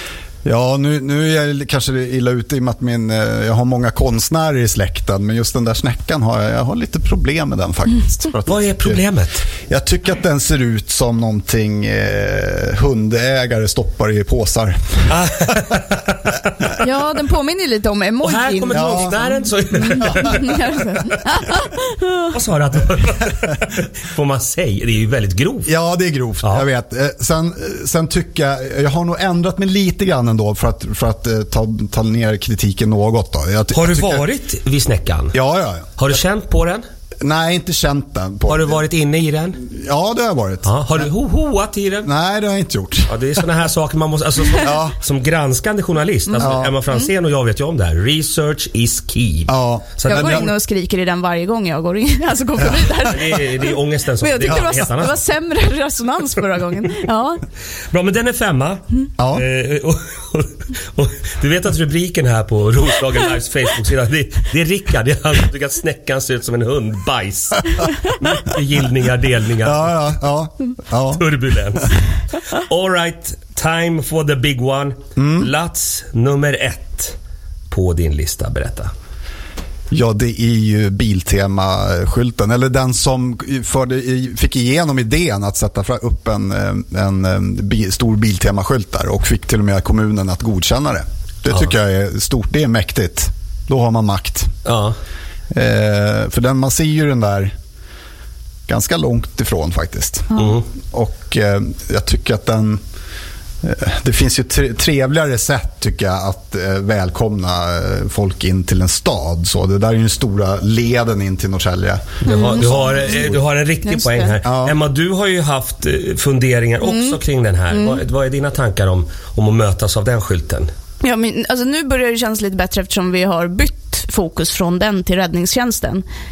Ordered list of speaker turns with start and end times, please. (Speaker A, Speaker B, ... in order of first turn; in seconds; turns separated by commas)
Speaker A: 0.5-9.0, Speaker B: 8.5-9.5, Speaker A: 9.7-15.1, Speaker B: 15.1-16.8, Speaker C: 16.8-22.4, Speaker B: 18.2-20.6, Speaker A: 18.7-19.1, Speaker A: 20.0-21.0, Speaker B: 22.3-25.7, Speaker A: 25.6-34.3, Speaker B: 33.7-35.4, Speaker A: 35.3-35.9, Speaker B: 36.0-36.8, Speaker A: 37.2-38.9, Speaker B: 38.5-39.6, Speaker A: 39.6-41.1, Speaker B: 40.6-42.1, Speaker A: 42.0-43.1, Speaker B: 43.1-50.5, Speaker A: 44.5-45.0, Speaker A: 46.4-46.7, Speaker C: 46.4-47.0, Speaker A: 49.5-50.5, Speaker C: 50.0-57.4, Speaker B: 53.0-55.2, Speaker B: 57.9-70.0, Speaker A: 59.2-59.5, Speaker A: 69.6-71.2, Speaker B: 71.1-77.2, Speaker A: 75.2-75.5, Speaker B: 77.7-78.9, Speaker A: 79.9-94.5, Speaker B: 94.7-95.0, Speaker A: 95.5-97.5, Speaker A: 98.7-102.8, Speaker B: 100.3-100.7, Speaker A: 103.6-113.4, Speaker B: 112.2-120.7, Speaker C: 112.2-113.2, Speaker C: 113.8-114.4, Speaker A: 114.4-114.8, Speaker C: 116.8-117.2, Speaker C: 117.7-118.0, Speaker C: 121.0-126.0